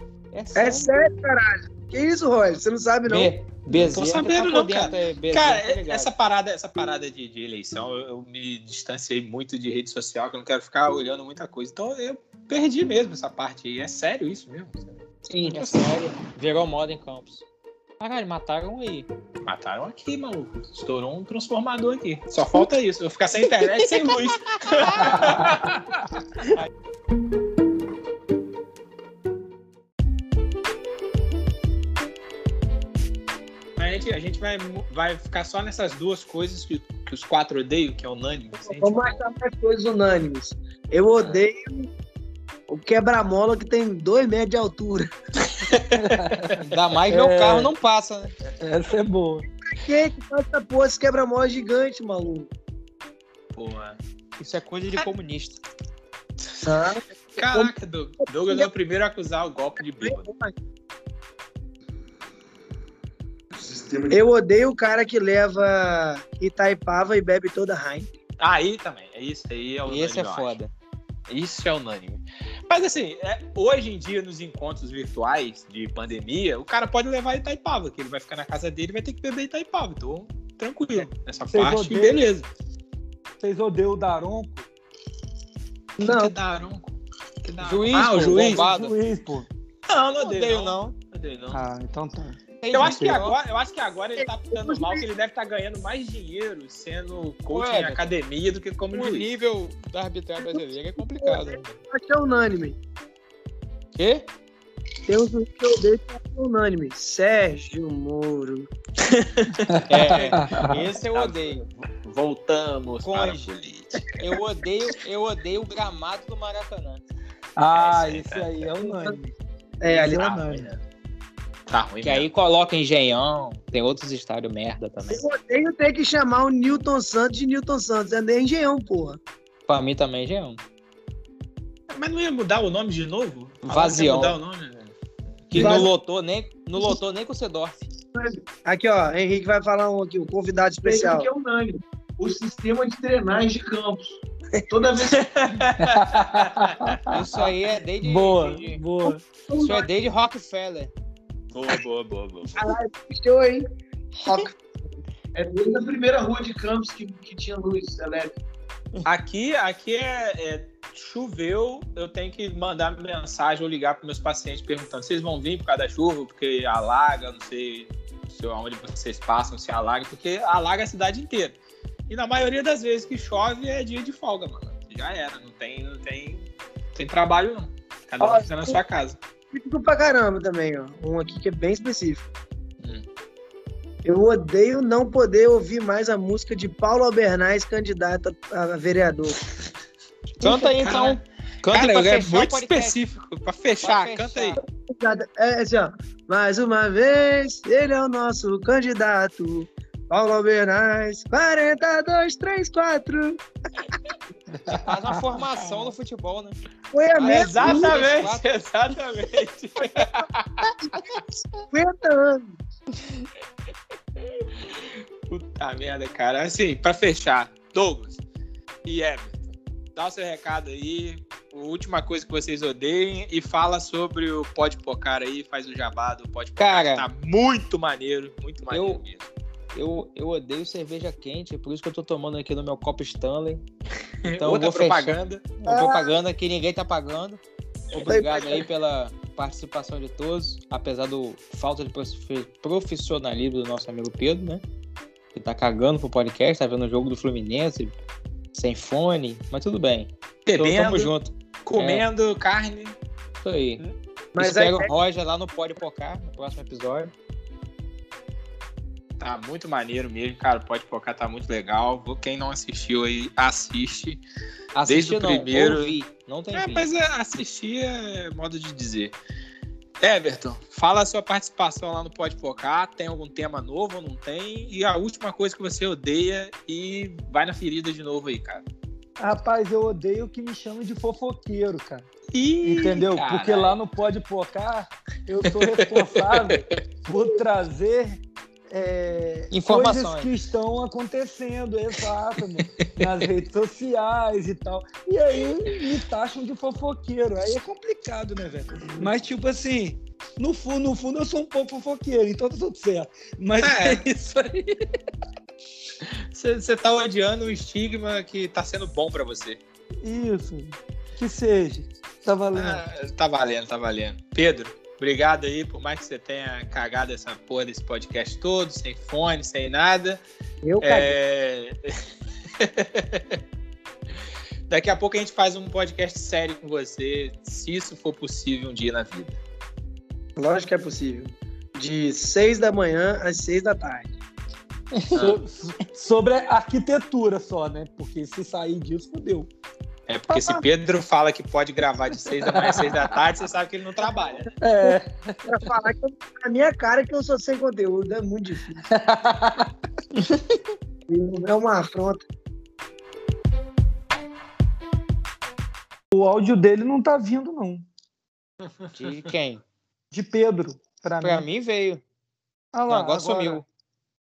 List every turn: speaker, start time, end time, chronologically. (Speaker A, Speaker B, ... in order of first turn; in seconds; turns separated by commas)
Speaker A: 0.3-1.0, Speaker B: 0.6-3.4, Speaker A: 3.1-6.1, Speaker C: 3.7-16.0, Speaker A: 15.5-17.4, Speaker A: 18.0-19.1, Speaker C: 19.4-26.0, Speaker A: 23.8-25.5, Speaker D: 25.1-25.5, Speaker C: 33.8-39.2, Speaker B: 38.6-41.9, Speaker B: 42.7-45.1, Speaker C: 45.5-46.8, Speaker D: 46.0-47.7, Speaker A: 46.6-48.3, Speaker D: 48.4-49.5, Speaker B: 49.6-52.5, Speaker C: 53.5-54.0, Speaker A: 54.4-55.6, Speaker C: 56.5-60.3, Speaker B: 56.6-57.7, Speaker B: 58.3-58.7, Speaker B: 60.0-60.5, Speaker B: 64.1-68.1, Speaker C: 68.4-70.5, Speaker A: 69.9-70.7, Speaker C: 71.3-82.5, Speaker D: 81.5-82.2, Speaker D: 83.4-84.7, Speaker C: 86.0-88.7, Speaker B: 86.0-86.3, Speaker A: 87.6-89.0, Speaker D: 88.1-89.5, Speaker C: 89.9-91.6, Speaker A: 90.2-91.0, Speaker D: 91.5-93.2, Speaker A: 92.6-93.4, Speaker C: 92.7-99.3, Speaker B: 94.5-95.0, Speaker A: 97.5-98.1, Speaker A: 98.9-101.8, Speaker B: 101.2-102.8, Speaker A: 104.0-104.3, Speaker B: 105.1-108.7, Speaker C: 109.0-114.0, Speaker D: 109.7-110.8, Speaker A: 109.9-111.7, Speaker A: 113.0-113.5, Speaker A: 114.2-117.0, Speaker D: 117.6-119.4, Speaker C: 117.7-118.7, Speaker B: 118.8-119.2, Speaker B: 119.8-120.7, Speaker C: 119.9-120.8, Speaker C: 121.7-122.3, Speaker A: 122.0-125.2, Speaker B: 125.1-129.2, Speaker A: 129.7-130.6, Speaker C: 131.9-134.9, Speaker A: 133.6-134.4, Speaker C: 135.5-135.9, Speaker A: 135.5-137.9, Speaker B: 135.5-135.9, Speaker B: 138.2-141.6, Speaker E: 141.1-144.2, Speaker B: 142.2-143.4, Speaker E: 144.7-145.1, Speaker B: 144.7-145.2, Speaker C: 145.0-147.0, Speaker D: 145.8-147.5, Speaker A: 147.1-150.9, Speaker D: 148.0-149.2, Speaker B: 149.5-149.9, Speaker C: 151.5-152.7, Speaker B: 152.6-153.7, Speaker B: 154.2-154.6, Speaker B: 155.3-158.3, Speaker E: 156.0-157.0, Speaker C: 159.0-171.6, Speaker C: 172.1-179.2, Speaker B: 178.2-178.8, Speaker B: 179.5-182.3, Speaker B: 184.0-189.4, Speaker A: 190.4-193.0, Speaker C: 190.5-194.6, Speaker A: 193.8-194.6, Speaker B: 194.6-204.0, Speaker D: 204.6-205.2, Speaker A: 204.7-206.6, Speaker B: 206.9-208.1, Speaker A: 207.1-208.5, Speaker C: 207.2-210.7, Speaker B: 209.9-212.6, Speaker C: 215.3-218.2, Speaker C: 218.8-229.3, Speaker A: 226.6-227.1, Speaker A: 228.7-229.0, Speaker A: 229.7-233.6, Speaker C: 234.2-235.5, Speaker A: 234.4-237.4, Speaker B: 235.7-236.1, Speaker A: 237.9-244.6, Speaker B: 237.9-238.6, Speaker A: 245.3-248.0, Speaker A: 248.5-252.1, Speaker C: 250.5-251.1, Speaker C: 251.6-252.9, Speaker A: 253.4-253.8, Speaker B: 254.3-254.9, Speaker A: 254.4-257.1, Speaker C: 259.2-264.2, Speaker A: 264.8-266.9, Speaker C: 264.9-265.9, Speaker C: 266.6-269.2, Speaker C: 270.0-278.6, Speaker D: 279.2-282.1, Speaker C: 282.3-283.8, Speaker D: 282.6-304.9, Speaker C: 285.6-286.6, Speaker A: 289.5-290.3, Speaker C: 292.6-292.9, Speaker C: 303.6-304.1, Speaker C: 306.0-309.6, Speaker D: 310.0-312.8, Speaker C: 312.5-320.2, Speaker B: 320.6-321.2, Speaker C: 320.8-322.0, Speaker C: 322.6-323.4, Speaker C: 324.7-329.4, Speaker B: 330.4-334.1, Speaker D: 335.1-339.5, Speaker C: 335.1-335.4, Speaker C: 340.1-344.5, Speaker D: 342.3-343.1, Speaker D: 344.6-345.6, Speaker B: 345.5-348.9, Speaker D: 348.9-349.7, Speaker A: 350.1-350.6, Speaker B: 351.1-352.2, Speaker D: 356.1-357.9, Speaker A: 358.9-359.6, Speaker D: 360.1-361.5, Speaker A: 361.2-362.0, Speaker D: 362.7-363.6, Speaker A: 362.9-363.6